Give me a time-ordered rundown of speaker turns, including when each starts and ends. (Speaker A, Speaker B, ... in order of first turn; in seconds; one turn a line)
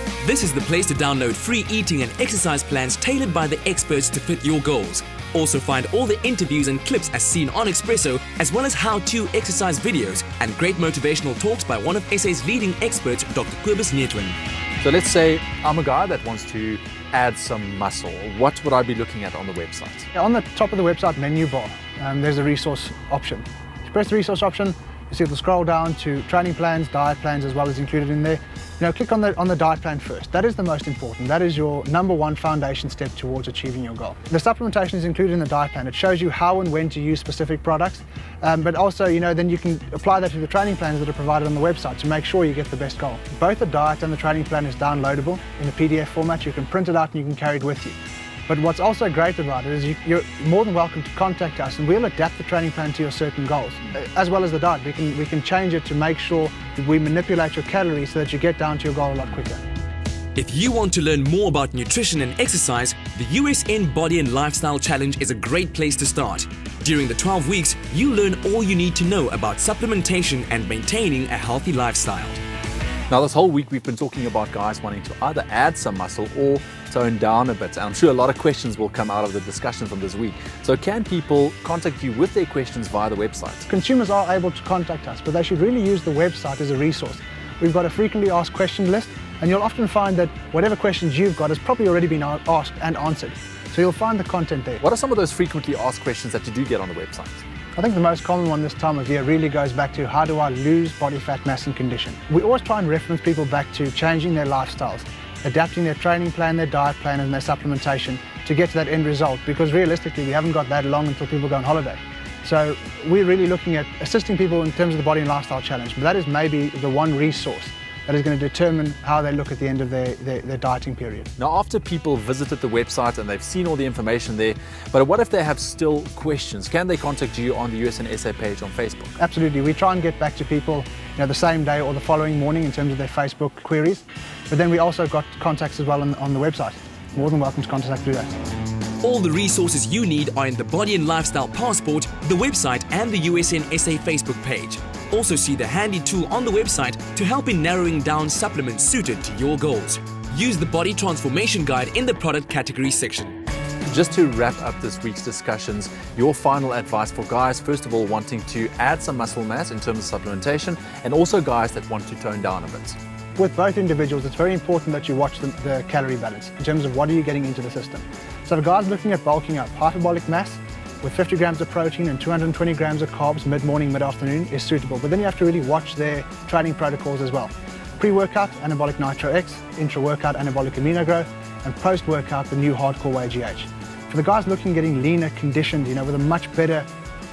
Speaker A: 0.2-14.4
Speaker B: 14.8-20.1
Speaker C: 20.1-48.0
Speaker C: 48.5-59.6
Speaker A: 60.4-72.4
Speaker B: 73.1-83.7
Speaker C: 83.7-94.8
Speaker B: 94.8-97.4
Speaker C: 97.8-121.3
Speaker B: 121.4-129.1
Speaker C: 129.2-138.3
Speaker A: 139.0-153.3
Speaker B: 153.9-163.0
Speaker C: 163.3-186.9